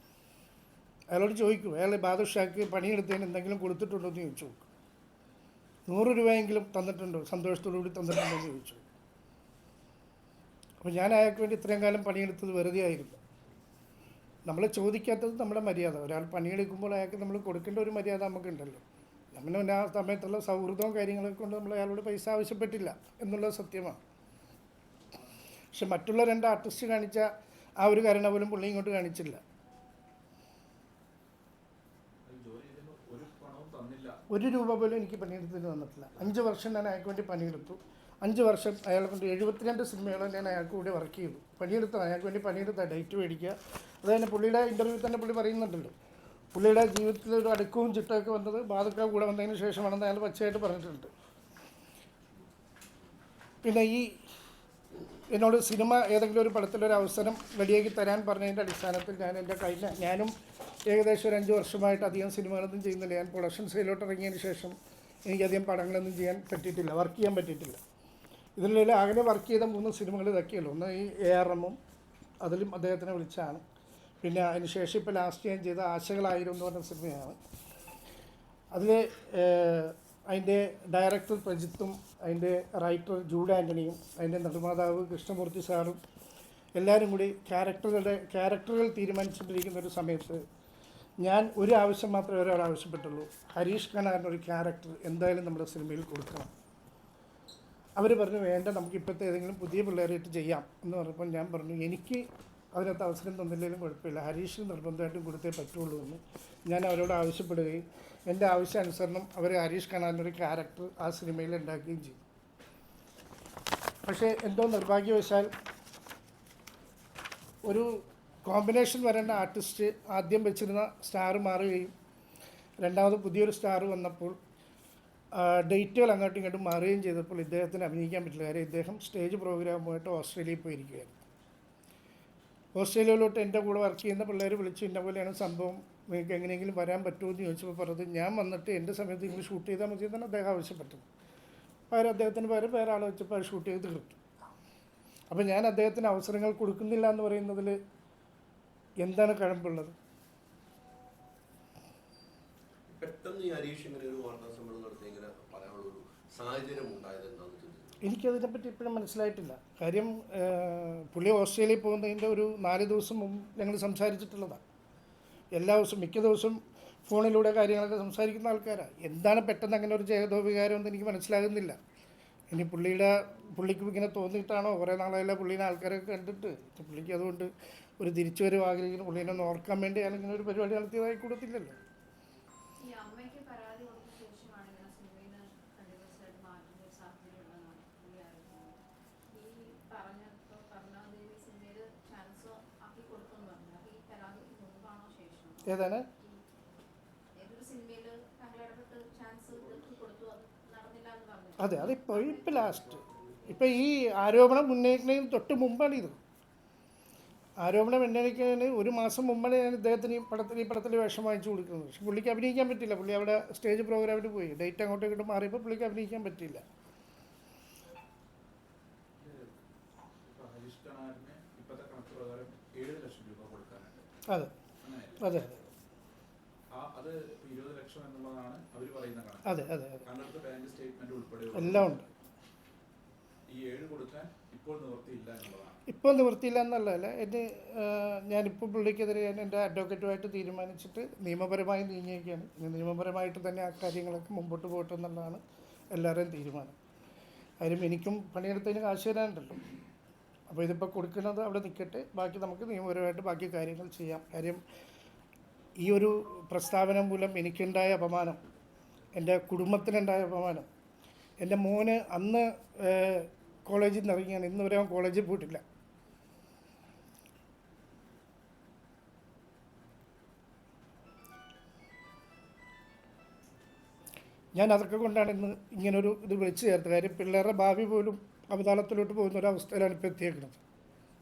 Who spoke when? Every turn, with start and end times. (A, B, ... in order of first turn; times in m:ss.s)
0:01.1-0:04.6 A
0:05.9-0:08.8 A
0:10.8-0:13.2 A
0:14.4-0:18.8 A
0:19.3-0:24.0 A
0:25.7-0:27.3 A
0:27.8-0:29.4 A
0:32.2-0:34.2 B
0:34.3-0:45.9 A
0:46.5-0:51.1 A
0:53.6-0:54.1 A
0:55.3-1:00.3 A
1:00.9-1:04.7 A
1:05.2-1:07.8 A
1:08.6-1:11.8 A
1:12.4-1:13.6 A
1:14.2-1:17.4 A
1:18.7-1:26.0 A
1:26.8-1:30.4 A
1:31.2-1:36.5 A
1:38.0-1:52.2 A
1:54.0-1:55.5 A
1:57.6-2:01.9 A
2:02.8-2:04.4 A
2:05.3-2:11.2 A
2:12.7-2:21.0 A
2:21.9-2:24.2 A
2:25.3-2:27.8 A
2:29.0-2:29.9 A
2:32.9-2:38.0 C
2:38.0-2:44.6 A
2:45.5-2:51.8 A
2:52.5-3:01.8 A
3:02.8-3:08.8 D
3:09.3-3:16.4 D
3:15.6-3:16.0 A
3:17.4-3:22.6 D
3:21.6-3:26.2 A
3:27.6-3:36.6 A
3:39.2-3:39.6 B
3:40.2-3:44.0 B
3:44.8-3:45.3 B
3:45.2-3:45.7 A
3:46.7-3:49.5 B
3:49.4-3:50.0 A
3:50.0-3:52.1 B
3:51.5-3:52.1 A
3:53.5-3:55.8 B
3:55.9-4:05.4 A
4:05.9-4:06.7 A
4:07.6-4:09.6 A
4:10.5-4:14.6 A
4:15.8-4:18.4 A
4:19.1-4:20.6 A
4:21.4-4:25.6 A
4:34.5-4:40.6 A